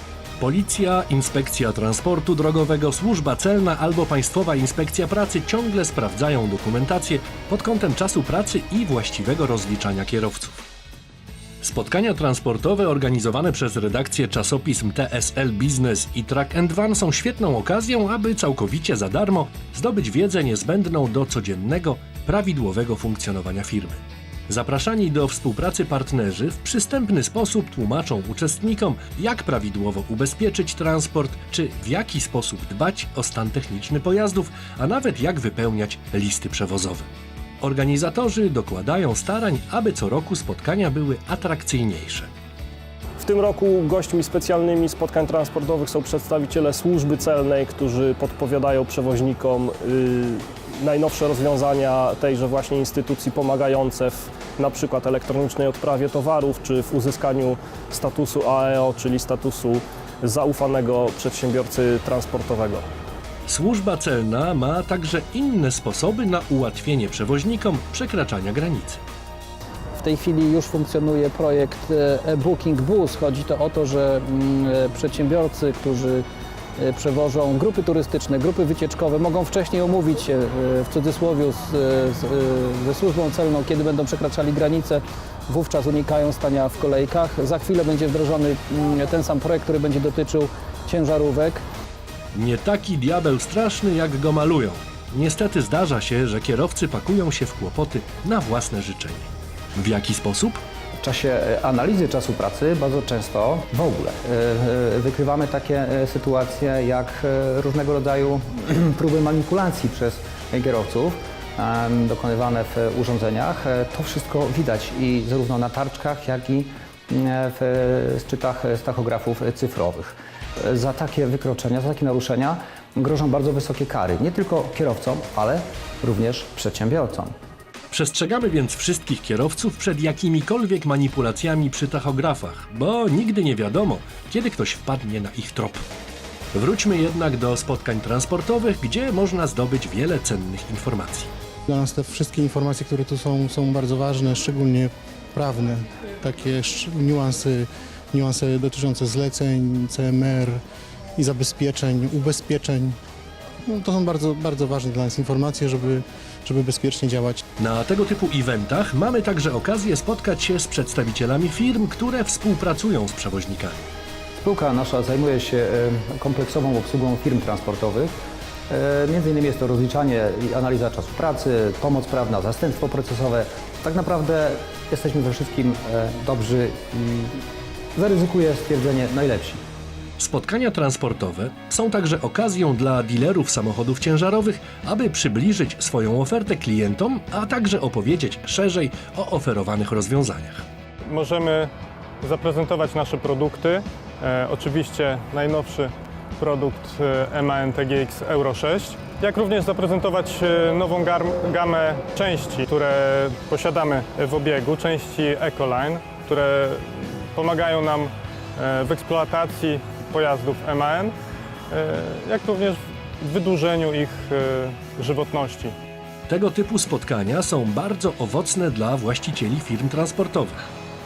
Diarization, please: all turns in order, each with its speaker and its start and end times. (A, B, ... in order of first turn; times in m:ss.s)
0:00.4-0:10.6 A
0:11.6-0:37.0 A
0:37.6-0:42.3 A
0:43.2-1:02.8 B
1:03.5-1:09.0 A
1:10.0-1:16.2 C
1:16.8-1:31.6 C
1:32.3-1:40.6 A
1:41.0-2:07.3 D
2:07.9-2:15.8 A
2:16.5-2:21.3 A
2:21.7-2:30.6 E
2:31.2-2:33.0 E
2:33.6-2:37.4 E
2:37.6-2:43.8 A
2:44.4-2:48.1 D
2:48.7-2:57.4 D
2:57.9-2:59.6 D
3:00.2-3:10.6 A
3:11.1-3:11.7 F
3:12.2-3:31.1 F
3:31.7-3:35.7 F
3:36.3-3:40.6 A